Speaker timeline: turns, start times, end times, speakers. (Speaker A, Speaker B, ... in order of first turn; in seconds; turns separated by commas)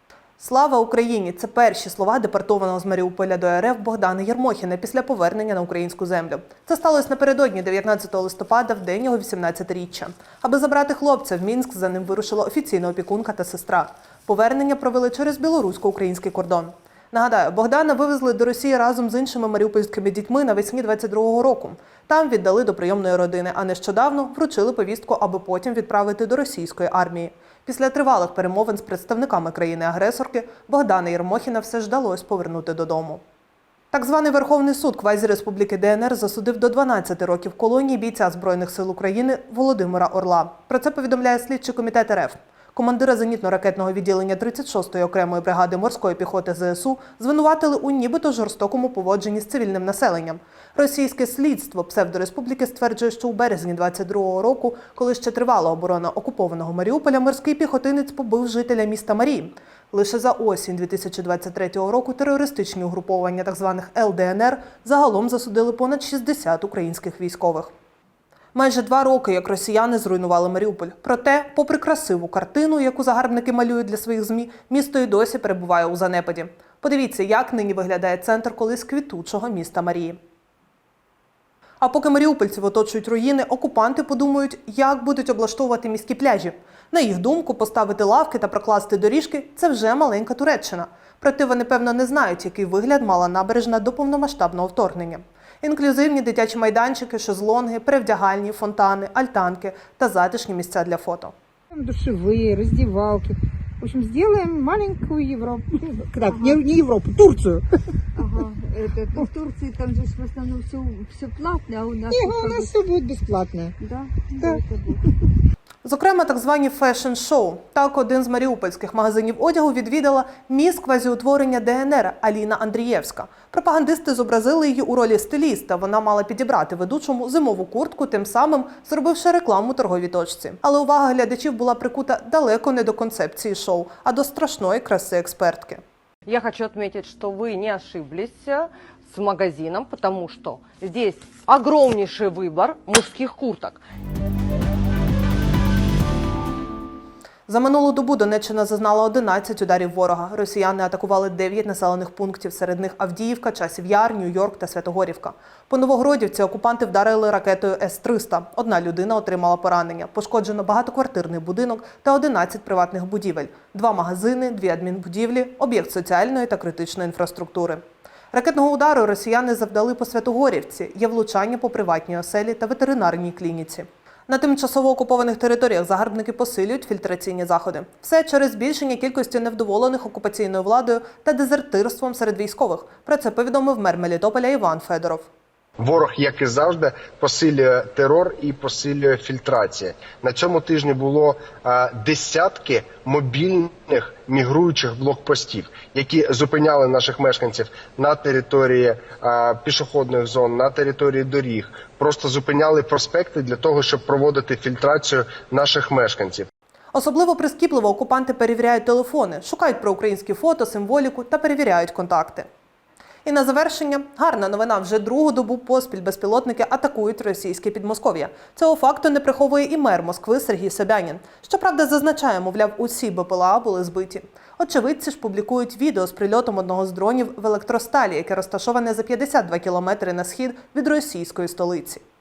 Speaker A: 0.4-33.2, Speaker A: 33.9-67.7, Speaker A: 68.5-80.2, Speaker A: 81.8-101.3, Speaker B: 101.7-107.7, Speaker C: 106.3-106.6, Speaker C: 108.2-112.8, Speaker B: 112.1-113.7, Speaker C: 113.8-115.0, Speaker A: 115.8-135.8, Speaker D: 136.2-143.8, Speaker A: 147.5-185.3, Speaker E: 185.8-206.5, Speaker A: 206.9-212.5, Speaker A: 213.2-232.0